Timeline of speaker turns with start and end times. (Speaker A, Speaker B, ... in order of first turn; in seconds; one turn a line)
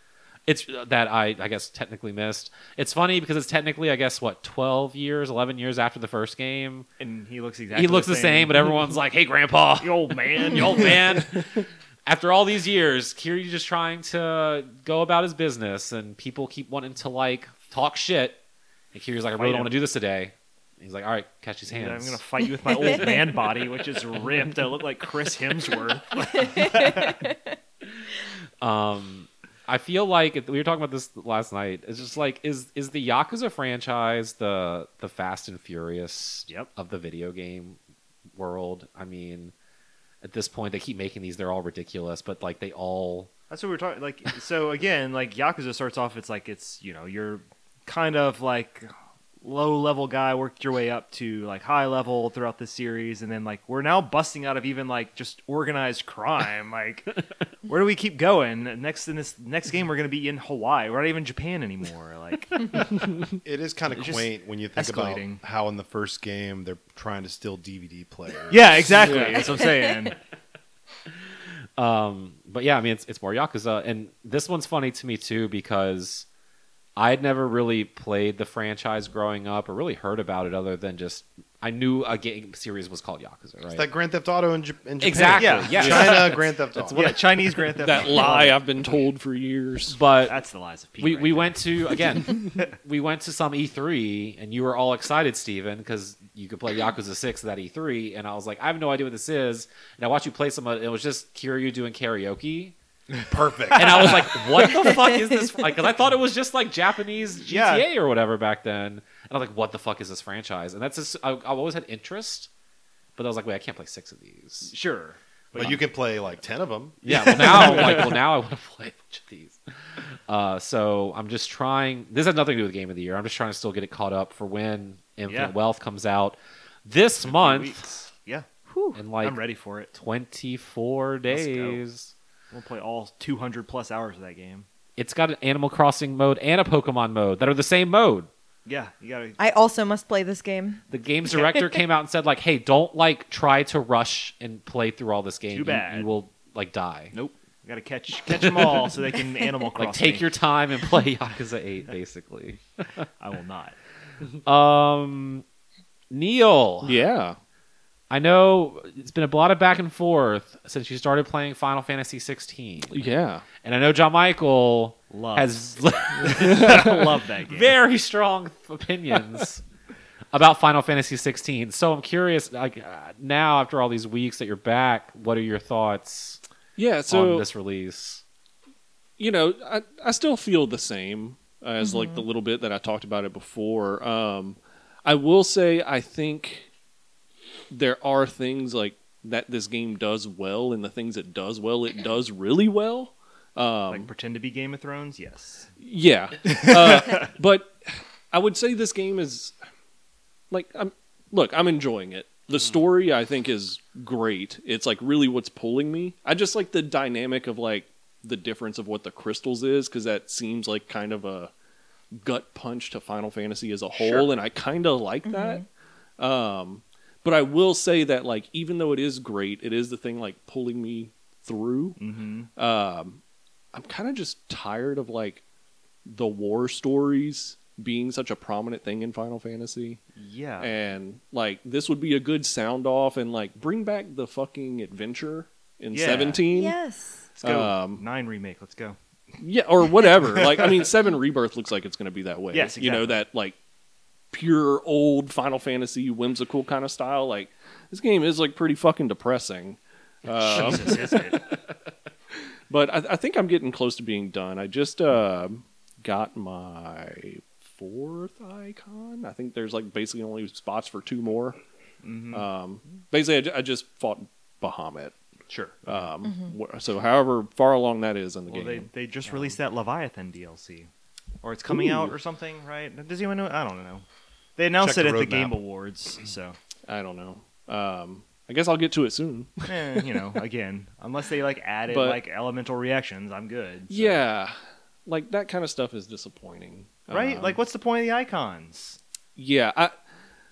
Speaker A: 0.5-6.9
Speaker B: 7.0-8.7
Speaker A: 7.7-18.4
Speaker B: 9.8-11.1
Speaker A: 18.9-22.2
Speaker B: 19.4-19.8
Speaker B: 21.7-27.2
Speaker A: 28.6-37.8
Speaker A: 38.4-39.5
Speaker A: 40.2-43.3
Speaker B: 43.5-48.9
Speaker B: 49.4-57.1
Speaker B: 57.7-63.1
Speaker C: 63.4-69.4
Speaker B: 63.9-65.4
Speaker B: 68.5-70.2
Speaker D: 69.0-69.4
Speaker A: 71.8-76.3
Speaker A: 77.0-83.9
Speaker C: 83.7-87.2
Speaker A: 85.0-87.2
Speaker B: 85.3-86.3
Speaker B: 86.9-88.6
Speaker D: 87.8-90.0
Speaker A: 89.9-90.4
Speaker B: 90.2-91.6
Speaker A: 91.0-102.7
Speaker C: 103.3-104.7
Speaker A: 103.7-112.5
Speaker B: 107.5-107.9
Speaker A: 113.2-114.7
Speaker B: 114.7-115.8
Speaker C: 115.6-117.8
Speaker A: 117.0-128.0
Speaker B: 117.4-118.1
Speaker B: 125.3-125.5
Speaker B: 127.2-129.9
Speaker A: 128.9-129.4
Speaker A: 129.9-132.1
Speaker B: 131.3-131.8
Speaker B: 132.5-134.7
Speaker A: 135.0-138.3
Speaker B: 138.7-139.4
Speaker E: 139.4-140.8
Speaker A: 140.9-147.2
Speaker B: 145.5-146.1
Speaker B: 147.1-150.3
Speaker A: 148.3-149.0
Speaker A: 149.8-153.1
Speaker B: 153.2-153.8
Speaker A: 154.4-155.4
Speaker A: 156.1-157.0
Speaker D: 156.8-157.4
Speaker A: 158.1-163.0
Speaker D: 162.9-163.4
Speaker A: 163.6-169.6
Speaker B: 165.1-167.8
Speaker D: 166.2-166.9
Speaker A: 170.3-176.4
Speaker D: 176.8-177.5
Speaker A: 177.1-178.2
Speaker D: 179.2-186.7
Speaker E: 181.8-182.2
Speaker D: 187.7-194.1
Speaker B: 193.9-195.7
Speaker D: 195.8-199.6
Speaker B: 196.4-197.3
Speaker D: 200.5-211.5
Speaker D: 212.1-215.7
Speaker B: 213.9-214.3
Speaker E: 215.3-215.6
Speaker D: 216.2-222.0
Speaker B: 222.0-222.5
Speaker D: 222.6-223.2
Speaker D: 223.7-225.4
Speaker D: 226.1-230.0
Speaker B: 230.2-230.7
Speaker D: 230.6-236.8
Speaker B: 235.9-236.4
Speaker E: 236.5-237.3
Speaker D: 237.4-238.0
Speaker B: 237.4-239.0
Speaker D: 239.4-243.6
Speaker B: 240.2-240.8
Speaker B: 242.5-243.2
Speaker D: 244.3-251.2
Speaker B: 250.4-251.4
Speaker D: 252.7-261.6
Speaker B: 262.0-262.5
Speaker D: 262.3-265.1
Speaker B: 265.5-266.1
Speaker D: 265.9-269.6
Speaker E: 266.3-266.5
Speaker B: 268.5-270.9
Speaker B: 271.4-274.1
Speaker D: 271.7-272.1
Speaker B: 274.6-276.6
Speaker C: 274.8-275.6
Speaker D: 276.9-280.2
Speaker B: 279.7-284.2
Speaker D: 281.9-282.2
Speaker D: 283.9-284.6
Speaker D: 285.1-287.6
Speaker B: 287.1-289.0
Speaker D: 289.4-290.0